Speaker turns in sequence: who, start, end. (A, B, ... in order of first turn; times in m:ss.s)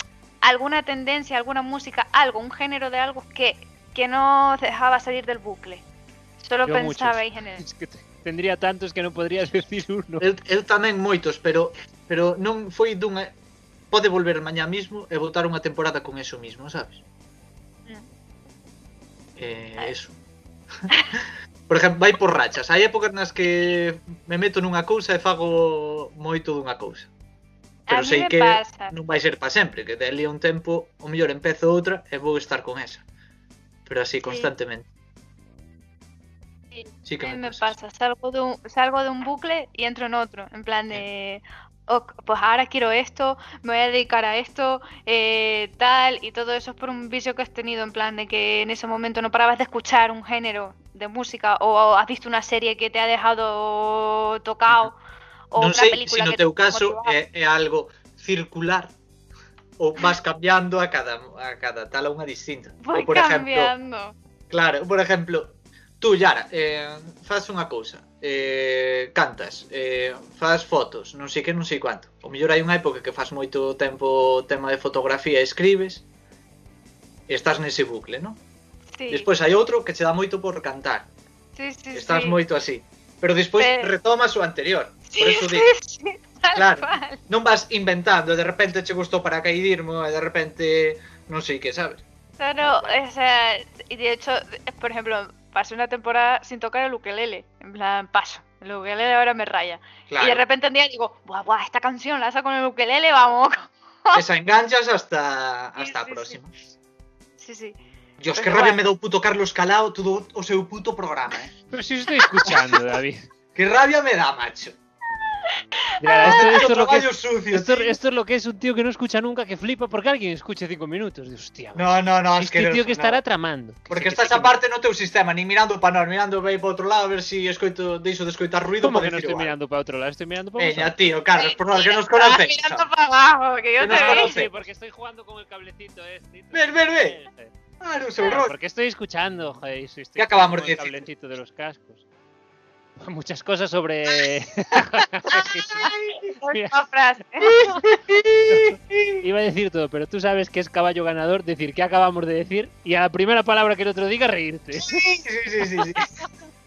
0:00.4-0:05.8 A
0:06.4-0:07.6 A
0:06.6-0:10.3 B
0:10.2-0:13.3 C
0:13.9-0:17.0 C
0:19.4-0:20.1 C
0:21.7-0:27.1 C
0:27.9-0:28.9 A
0:27.9-0:33.0 C
0:33.8-0:34.9 C
0:34.2-0:34.5 A
0:36.7-0:55.0 A
0:37.0-0:37.7 C
0:55.5-0:57.1 A
0:55.5-0:58.9 C
0:59.8-1:03.7 C
1:02.8-1:04.1 A
1:04.5-1:16.0 C
1:17.3-1:18.4 C
1:19.0-1:19.3 A
1:19.1-1:21.1 C
1:21.6-1:22.4 A
1:21.9-1:25.7 C
1:23.6-1:23.9 A
1:25.1-1:27.2 A
1:26.5-1:32.0 C
1:32.4-1:44.2 A
1:32.6-1:33.0 C
1:40.1-1:40.4 C
1:44.1-1:46.5 C
1:45.8-1:46.4 A
1:47.4-1:47.8 A
1:48.2-1:51.5 C
1:48.3-1:48.8 A
1:51.7-1:53.2 B
1:53.5-1:54.7 C
1:56.0-1:56.7 A
1:56.0-2:04.6 B
1:56.2-1:58.0 C
2:01.7-2:03.2 C
2:03.9-2:09.5 C
2:08.8-2:11.0 B
2:10.6-2:12.8 C
2:11.4-2:14.3 A
2:13.8-2:14.5 C
2:13.9-2:17.5 B
2:16.5-2:17.2 C
2:17.8-2:18.5 C
2:18.2-2:22.0 B
2:20.2-2:21.1 C
2:23.0-2:25.9 B
2:25.7-2:26.3 C
2:25.8-2:27.7 A
2:26.4-2:26.8 B
2:27.4-2:29.2 C
2:28.5-2:35.0 B
2:34.8-2:36.2 C